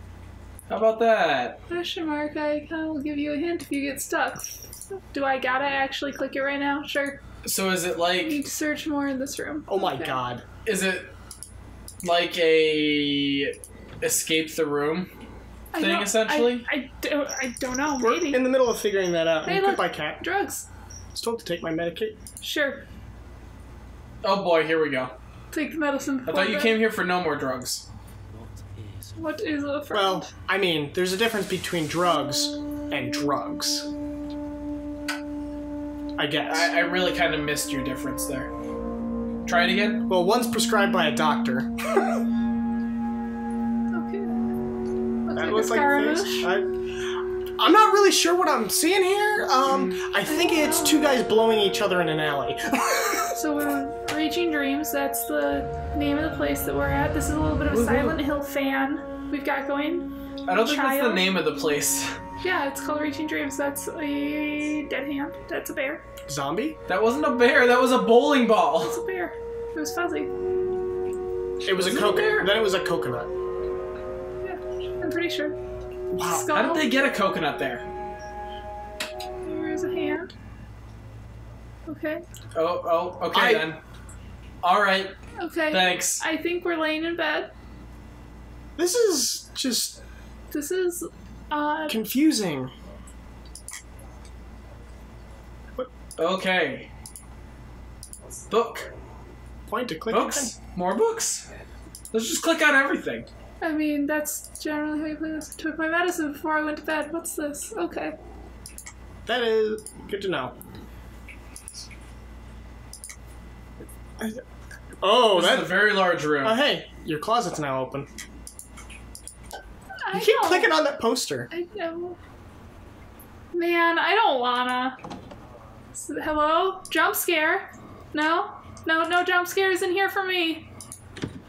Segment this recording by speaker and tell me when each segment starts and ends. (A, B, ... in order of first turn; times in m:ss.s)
0:00.7-0:01.6 A
0:01.7-0:07.2 B
0:07.4-0:08.4 A
0:08.2-0:10.2 B
0:09.7-0:10.4 C
0:10.6-0:11.1 A
0:12.0-0:15.1 A
0:15.7-0:18.5 B
0:15.8-0:16.7 A
0:18.0-0:20.2 C
0:19.4-0:20.7 B
0:21.1-0:22.2 C
0:22.4-0:22.8 B
0:24.2-0:25.1 A
0:25.5-0:26.9 B
0:26.3-0:27.8 A
0:29.2-0:30.3 B
0:29.9-0:33.9 C
0:36.2-0:36.7 C
0:36.5-0:38.5 A
0:39.4-0:40.0 A
0:40.1-0:41.7 C
0:43.9-0:44.4 B
0:45.3-0:46.5 B
0:45.4-0:46.7 C
0:47.6-0:53.4 C
0:50.3-0:51.2 B
0:53.3-1:01.3 B
0:57.7-0:58.2 A
1:00.5-1:02.2 A
1:02.4-1:06.0 B
1:06.3-1:06.8 C
1:06.9-1:09.0 A
1:08.8-1:10.3 B
1:11.6-1:13.3 C
1:11.7-1:12.5 A
1:14.4-1:15.6 B
1:16.1-1:16.5 C
1:16.2-1:17.0 B
1:16.5-1:17.8 A
1:19.4-1:20.3 B
1:21.9-1:22.2 B
1:22.5-1:23.8 A
1:23.3-1:23.7 C
1:24.6-1:25.2 A
1:25.4-1:27.5 B
1:25.7-1:26.2 A
1:28.8-1:30.0 C
1:30.5-1:32.0 B
1:31.9-1:32.7 C
1:36.2-1:36.9 A
1:38.5-1:38.9 A
1:39.7-1:40.5 C
1:40.1-1:41.5 A
1:42.1-1:43.3 A
1:43.6-1:48.2 B
1:49.3-1:50.5 C
1:55.0-1:58.1 C
1:55.3-1:56.6 A
2:00.1-2:00.7 B
2:00.1-2:01.5 C
2:01.5-2:02.2 B
2:03.5-2:05.0 B
2:05.9-2:10.7 B